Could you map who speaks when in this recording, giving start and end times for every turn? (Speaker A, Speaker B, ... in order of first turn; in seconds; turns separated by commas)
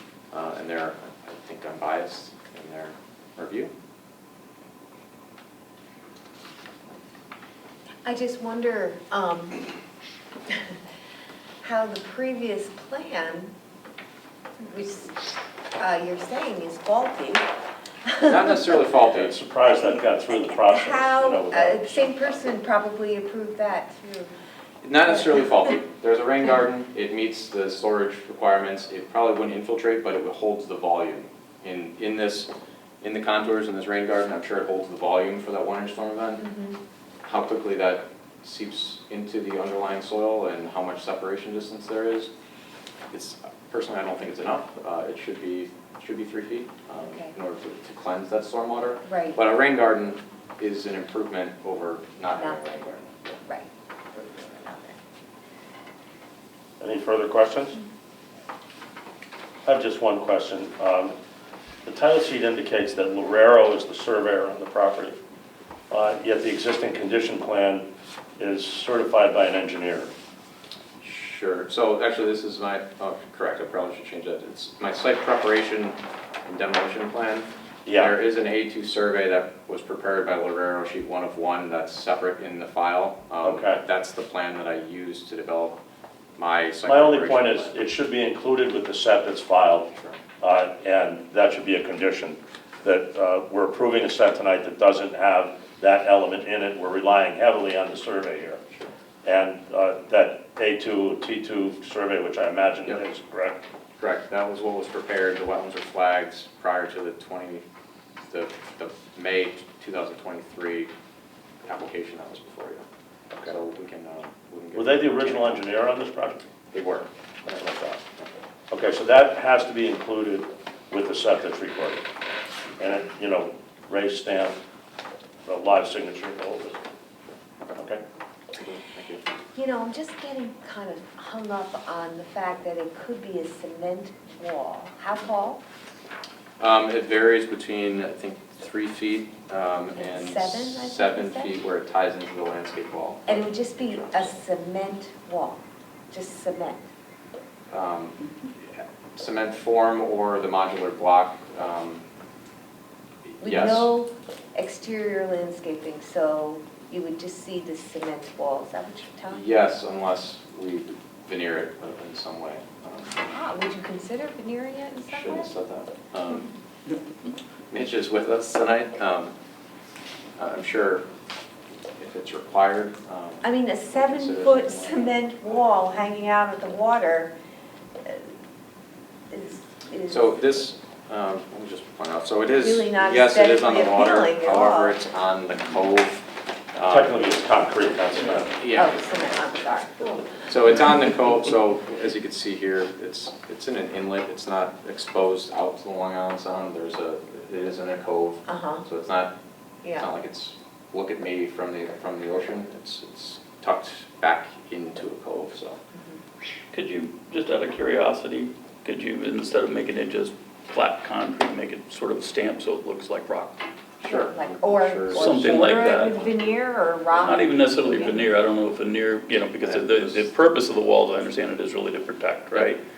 Speaker A: 0.3-3.7, Speaker B: 8.1-9.7, Speaker B: 11.6-13.5, Speaker B: 14.6-15.2, Speaker B: 15.8-17.5, Speaker B: 18.1-18.6, Speaker A: 18.2-19.4, Speaker C: 19.1-22.5, Speaker B: 20.4-24.3, Speaker A: 24.8-36.5, Speaker B: 36.4-36.8, Speaker A: 37.2-42.3, Speaker A: 43.1-53.4, Speaker B: 47.0-47.3, Speaker B: 49.1-49.4, Speaker B: 53.5-55.0, Speaker C: 56.8-57.8, Speaker C: 59.6-61.1, Speaker C: 61.9-65.2, Speaker C: 65.9-70.1, Speaker A: 71.0-85.8, Speaker C: 77.9-78.2, Speaker C: 83.4-83.8, Speaker A: 86.4-87.8, Speaker C: 86.8-98.6, Speaker A: 90.0-90.2, Speaker C: 99.2-103.6, Speaker A: 104.0-107.7, Speaker A: 108.2-110.9, Speaker A: 111.7-112.9, Speaker A: 113.5-115.7, Speaker C: 114.8-116.5, Speaker A: 116.7-117.1, Speaker C: 117.5-118.0, Speaker C: 118.7-122.0, Speaker C: 122.8-124.6, Speaker C: 125.5-126.8, Speaker C: 127.8-128.0, Speaker A: 128.5-129.2, Speaker B: 129.6-135.6, Speaker A: 136.6-144.4, Speaker B: 140.0-141.5, Speaker B: 143.3-146.9, Speaker A: 147.7-148.2, Speaker A: 148.8-152.0, Speaker A: 153.3-153.9, Speaker B: 153.4-159.4, Speaker A: 159.3-163.3, Speaker B: 163.3-165.5, Speaker A: 165.1-166.5, Speaker A: 167.7-169.3, Speaker A: 170.4-171.1, Speaker A: 172.0-175.2, Speaker B: 173.4-177.3, Speaker B: 179.3-180.4, Speaker A: 180.1-187.2, Speaker B: 182.6-185.0, Speaker C: 186.9-188.5, Speaker A: 188.0-189.4, Speaker B: 188.7-190.3, Speaker A: 190.5-199.3, Speaker B: 198.5-198.8, Speaker A: 200.0-205.8, Speaker B: 205.9-206.2, Speaker D: 206.7-213.6, Speaker A: 214.0-215.6, Speaker B: 214.1-218.2, Speaker D: 215.1-216.2, Speaker D: 217.1-222.8, Speaker A: 219.6-220.3